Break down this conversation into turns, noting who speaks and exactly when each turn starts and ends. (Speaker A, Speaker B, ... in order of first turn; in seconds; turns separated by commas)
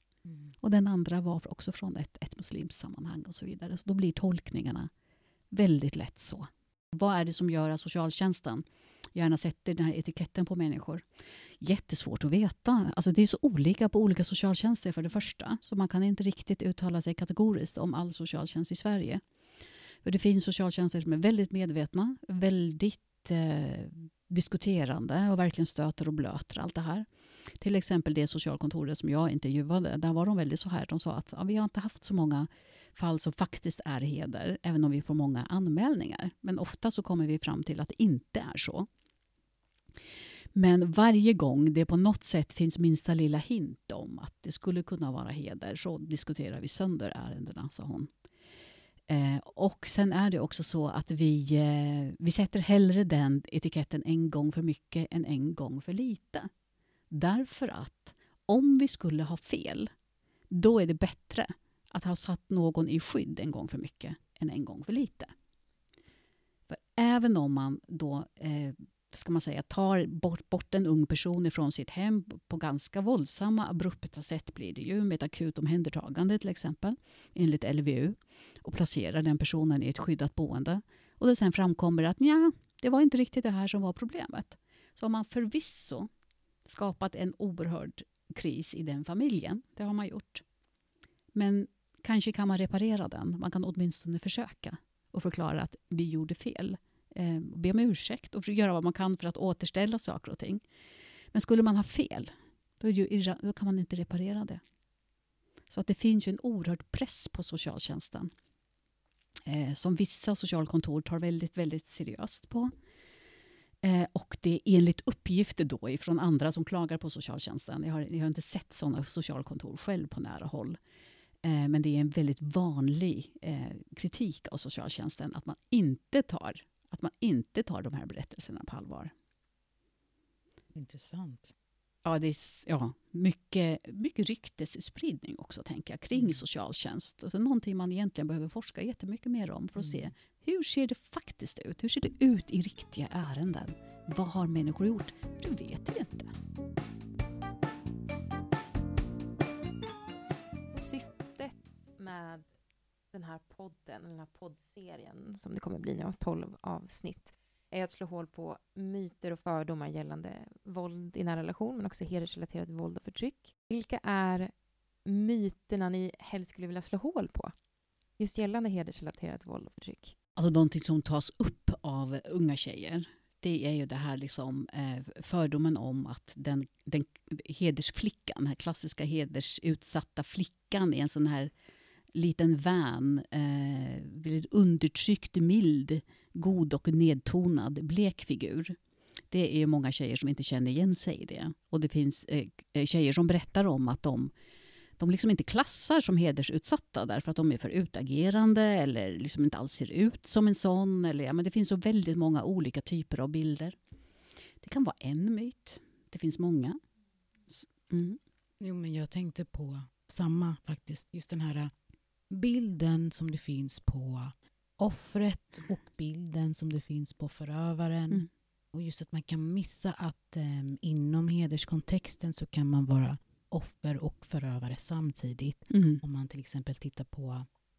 Speaker A: 0.3-0.5, Speaker B: 0.6-4.9, Speaker B: 5.5-8.6, Speaker B: 9.2-11.0, Speaker B: 11.6-19.2, Speaker B: 20.0-27.1, Speaker B: 27.6-38.9, Speaker B: 40.5-48.1, Speaker B: 49.1-56.5, Speaker B: 57.1-59.9, Speaker B: 60.5-65.3, Speaker B: 66.7-86.1, Speaker B: 86.7-90.4, Speaker B: 91.3-100.6, Speaker B: 101.3-104.6, Speaker B: 105.7-108.3, Speaker B: 109.5-112.7, Speaker B: 113.8-120.8, Speaker B: 121.4-129.1, Speaker A: 130.7-131.5, Speaker B: 132.1-146.3, Speaker A: 136.1-136.4, Speaker A: 139.8-140.1, Speaker C: 150.8-152.4, Speaker C: 153.1-164.5, Speaker C: 165.1-167.5, Speaker C: 168.2-170.2, Speaker B: 170.4-181.5, Speaker B: 182.1-188.8, Speaker B: 189.3-194.3, Speaker B: 195.0-203.8, Speaker B: 204.6-206.8, Speaker B: 207.5-208.2, Speaker A: 208.6-211.7, Speaker A: 212.3-227.5, Speaker B: 225.7-226.0